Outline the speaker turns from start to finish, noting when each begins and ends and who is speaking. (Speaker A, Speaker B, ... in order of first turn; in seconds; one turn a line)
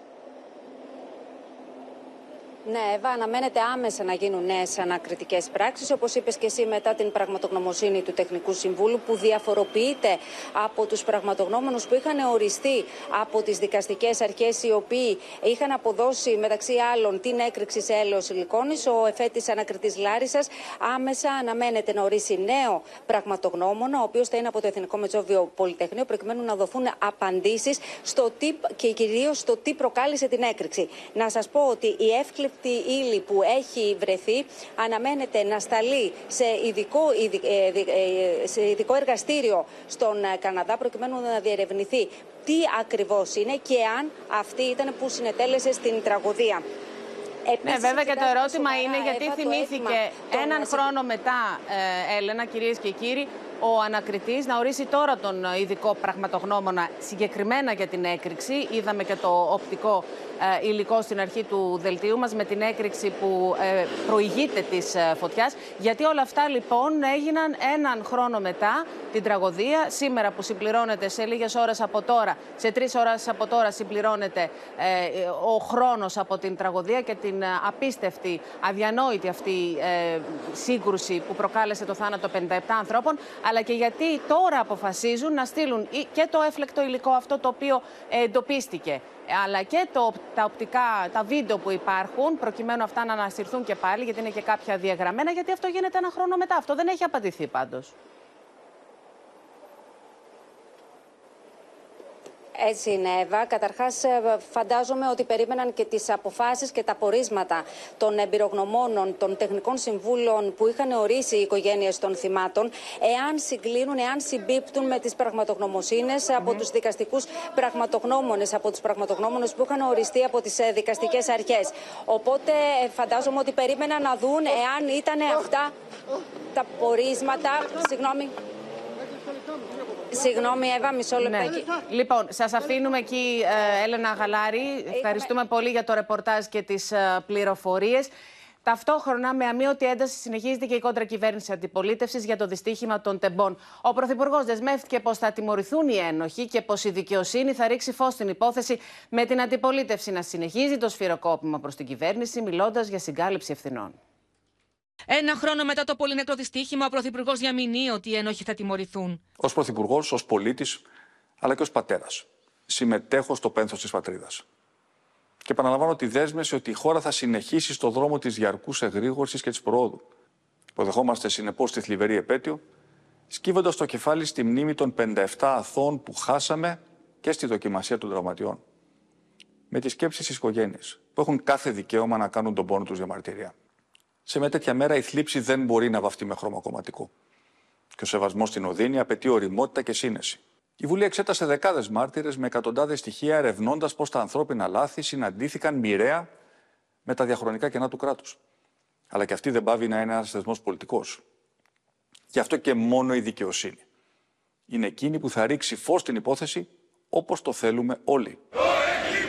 Speaker A: 2.7-46.6
Speaker A: 47.5-50.9
Speaker B: 47.6-98.0
Speaker A: 102.6-125.7
Speaker A: 126.5-128.3
Speaker A: 130.1-131.7
Speaker B: 131.2-138.1
Speaker A: 134.9-135.3
Speaker B: 138.6-154.0
Speaker C: 155.1-159.2
Speaker D: 159.4-160.8
Speaker D: 161.4-164.4
Speaker D: 165.4-170.0
Speaker D: 170.8-172.6
Speaker D: 173.3-178.6
Speaker D: 179.7-183.5
Speaker D: 184.3-187.1
Speaker D: 188.0-196.3
Speaker D: 197.1-198.4
Speaker D: 199.1-201.2
Speaker D: 202.3-203.8
Speaker D: 204.7-208.4